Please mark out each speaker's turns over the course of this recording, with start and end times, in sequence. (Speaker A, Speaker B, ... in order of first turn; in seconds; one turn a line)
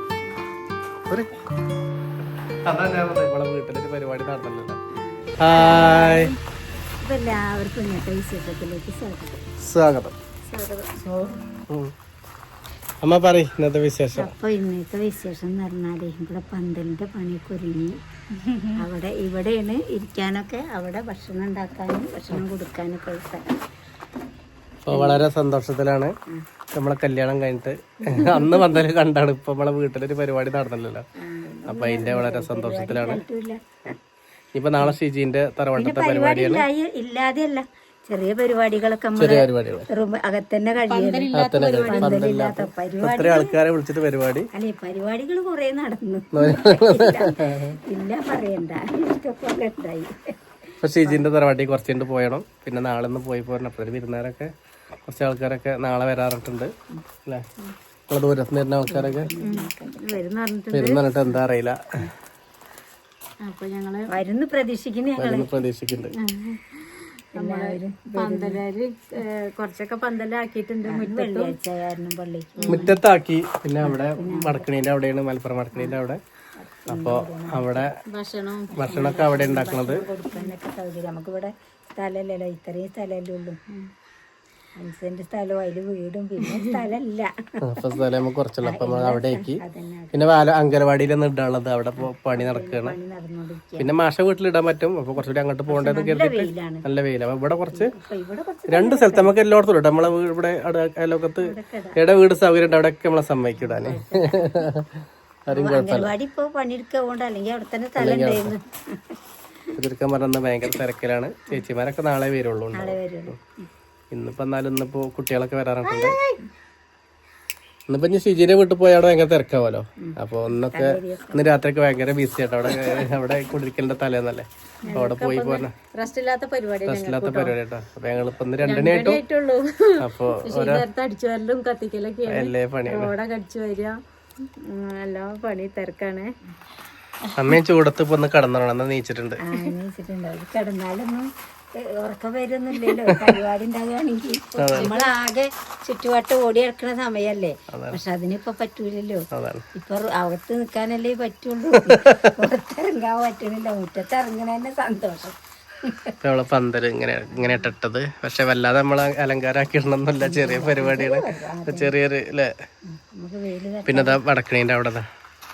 Speaker A: 0.3-0.5
Speaker B: 2.7-4.8
Speaker A: 5.0-6.3
Speaker B: 5.4-6.3
Speaker A: 7.0-9.4
Speaker B: 9.6-10.2
Speaker C: 10.5-10.9
Speaker A: 10.9-11.3
Speaker B: 13.0-14.3
Speaker A: 14.2-18.0
Speaker C: 18.4-18.8
Speaker A: 18.8-23.6
Speaker B: 24.9-26.1
Speaker A: 24.9-25.2
Speaker B: 26.7-31.1
Speaker A: 31.2-33.6
Speaker B: 31.7-33.2
Speaker B: 34.5-36.6
Speaker A: 35.8-43.5
Speaker B: 39.2-39.9
Speaker C: 40.9-42.3
Speaker B: 41.3-44.5
Speaker A: 44.5-50.2
Speaker B: 46.3-47.8
Speaker B: 50.8-54.5
Speaker B: 55.1-56.7
Speaker B: 58.1-59.3
Speaker A: 58.9-60.2
Speaker C: 59.4-61.0
Speaker B: 60.7-61.8
Speaker C: 63.4-64.1
Speaker A: 64.1-65.5
Speaker B: 65.2-66.2
Speaker C: 66.1-71.6
Speaker A: 67.4-68.6
Speaker A: 70.9-73.0
Speaker C: 72.6-72.9
Speaker B: 72.7-76.2
Speaker A: 73.8-74.7
Speaker A: 76.6-77.9
Speaker B: 76.9-78.0
Speaker C: 78.1-78.7
Speaker A: 78.7-83.6
Speaker B: 78.8-80.0
Speaker A: 84.8-88.0
Speaker B: 87.6-89.6
Speaker A: 88.6-90.2
Speaker B: 90.1-93.0
Speaker A: 92.0-93.9
Speaker B: 93.8-97.9
Speaker A: 95.7-96.8
Speaker A: 97.7-99.3
Speaker B: 98.7-104.9
Speaker A: 101.4-102.0
Speaker A: 103.6-104.7
Speaker B: 105.5-106.1
Speaker A: 105.5-109.2
Speaker B: 108.0-108.5
Speaker B: 109.8-113.3
Speaker A: 112.7-113.7
Speaker B: 114.1-116.2
Speaker C: 115.9-116.4
Speaker B: 117.9-125.8
Speaker A: 120.0-121.5
Speaker A: 124.8-125.1
Speaker C: 124.9-127.5
Speaker B: 126.9-129.2
Speaker C: 128.6-136.3
Speaker B: 130.0-130.9
Speaker B: 132.3-133.1
Speaker C: 137.2-137.5
Speaker B: 137.4-139.4
Speaker A: 139.4-156.2
Speaker B: 143.0-143.4
Speaker B: 144.6-144.9
Speaker C: 144.8-145.1
Speaker B: 147.7-148.0
Speaker B: 149.3-149.7
Speaker B: 151.7-152.4
Speaker B: 156.2-162.5
Speaker A: 157.4-157.7
Speaker A: 160.2-161.9
Speaker A: 162.9-164.2
Speaker B: 163.9-165.1